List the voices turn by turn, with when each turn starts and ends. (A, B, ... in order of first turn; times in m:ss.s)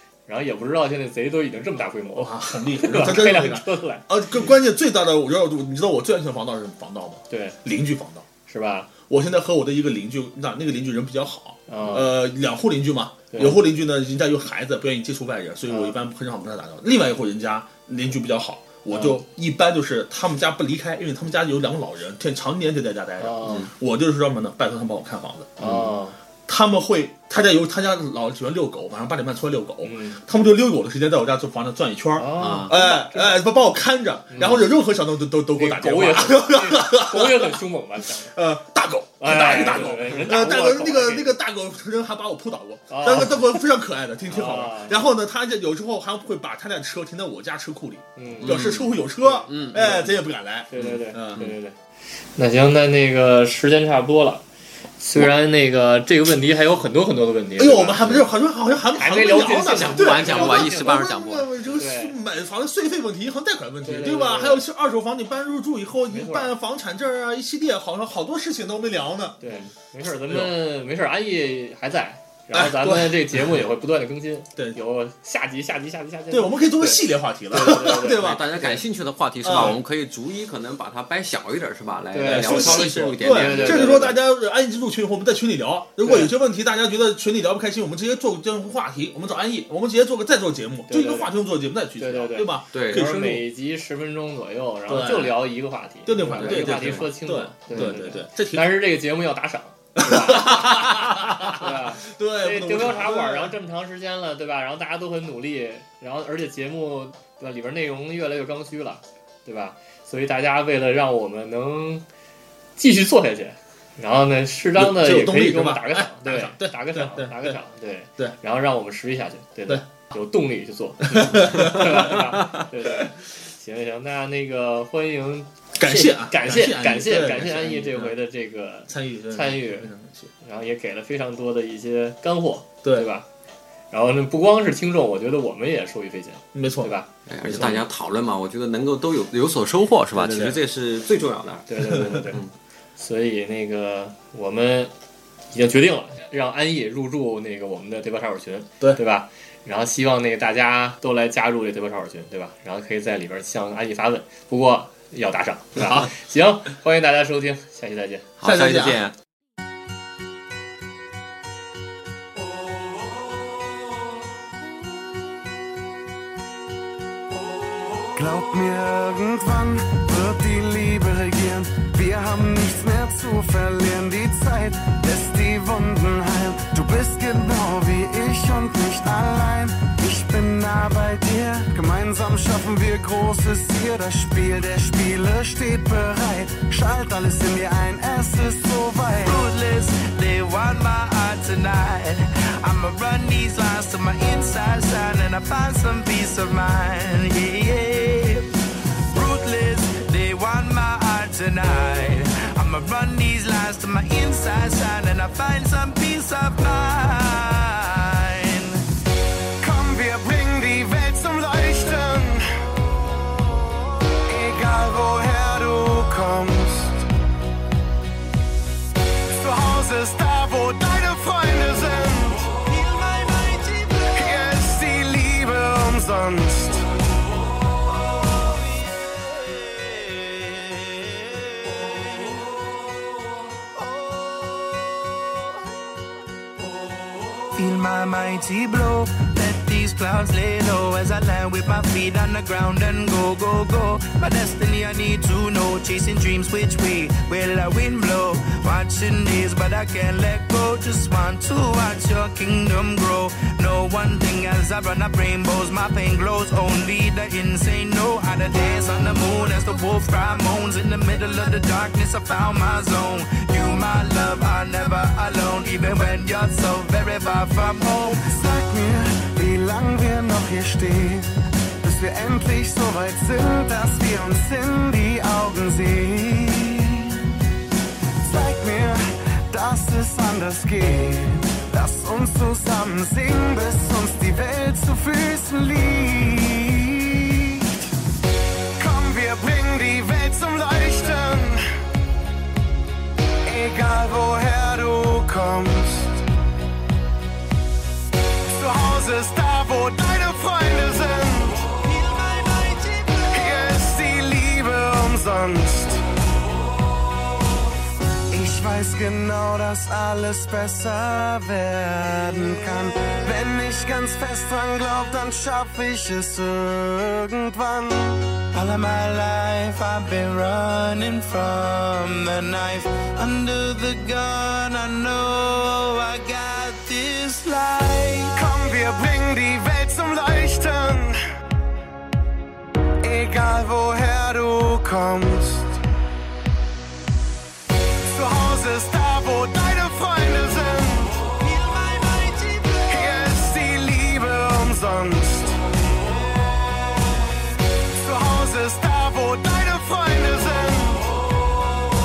0:00.3-0:04.1 A
0:02.2-0:08.3 B
0:07.3-0:07.6 A
0:08.4-0:08.9 A
0:09.1-0:25.6 B
0:11.7-0:12.1 A
0:13.3-0:13.6 A
0:15.7-0:16.0 A
0:18.9-0:19.2 A
0:23.2-0:23.7 A
0:23.4-0:23.7 C
0:25.6-0:25.9 C
0:25.6-0:26.2 A
0:26.5-0:37.6 B
0:29.8-0:30.2 A
0:32.2-0:33.5 A
0:32.4-0:32.8 C
0:34.3-0:34.7 A
0:34.4-0:34.6 C
0:35.5-0:38.3 A
0:38.2-0:51.4 B
0:39.2-0:41.3 A
0:42.9-0:43.6 A
0:44.3-0:45.0 A
0:48.2-0:50.1 A
0:48.4-0:48.9 C
0:49.4-0:50.0 C
0:50.7-0:51.7 A
0:50.7-0:51.5 C
0:52.4-0:54.4 A
0:55.0-0:58.1 A
0:57.6-1:09.6 B
0:58.0-0:58.3 C
0:58.9-1:01.0 A
0:59.7-1:01.6 C
1:01.7-1:02.2 A
1:03.8-1:04.6 A
1:06.1-1:06.5 A
1:09.4-1:18.8 A
1:10.3-1:10.6 B
1:12.5-1:13.3 B
1:16.3-1:18.4 B
1:18.1-1:24.2 C
1:19.4-1:19.8 B
1:22.1-1:24.2 A
1:22.3-1:33.4 B
1:26.0-1:26.3 A
1:30.9-1:31.3 A
1:32.0-1:52.0 A
1:32.7-1:33.1 C
1:34.9-1:35.4 B
1:36.0-1:38.8 B
1:36.2-1:37.1 C
1:40.0-1:43.5 B
1:52.8-2:09.9 A
1:54.7-1:57.6 B
2:01.1-2:02.6 B
2:05.8-2:08.1 B
2:08.9-2:10.3 B
2:10.4-2:13.2 A
2:13.9-2:17.8 A
2:16.5-2:16.9 B
2:17.2-2:22.5 C
2:20.1-2:20.6 A
2:21.7-2:22.4 A
2:23.0-2:24.9 A
2:25.5-2:38.3 A
2:38.4-2:39.1 C
2:38.4-2:39.0 B
2:48.1-3:09.4 D
3:09.2-3:18.5 E
3:19.1-3:28.8 E
3:29.6-3:32.5 D
3:34.3-3:37.0 D
3:39.3-3:42.5 D
3:42.5-3:44.1 E
3:44.1-3:46.9 D
3:47.8-3:52.5 E
3:53.8-3:55.6 E
3:57.5-4:28.3 E
4:28.1-4:37.3 D
4:38.2-4:47.7 D
4:48.8-4:51.6 D
4:53.4-4:56.2 D
4:58.4-5:01.7 D
5:01.7-5:03.4 E
5:03.3-5:06.0 D
5:08.3-5:18.2 D
5:18.5-5:28.3 E
5:28.3-5:31.2 D
5:33.0-5:35.8 D
5:38.0-5:41.3 D
5:41.3-5:42.8 E
5:42.8-5:45.6 D
5:46.2-5:47.1 E
5:47.9-5:51.1 D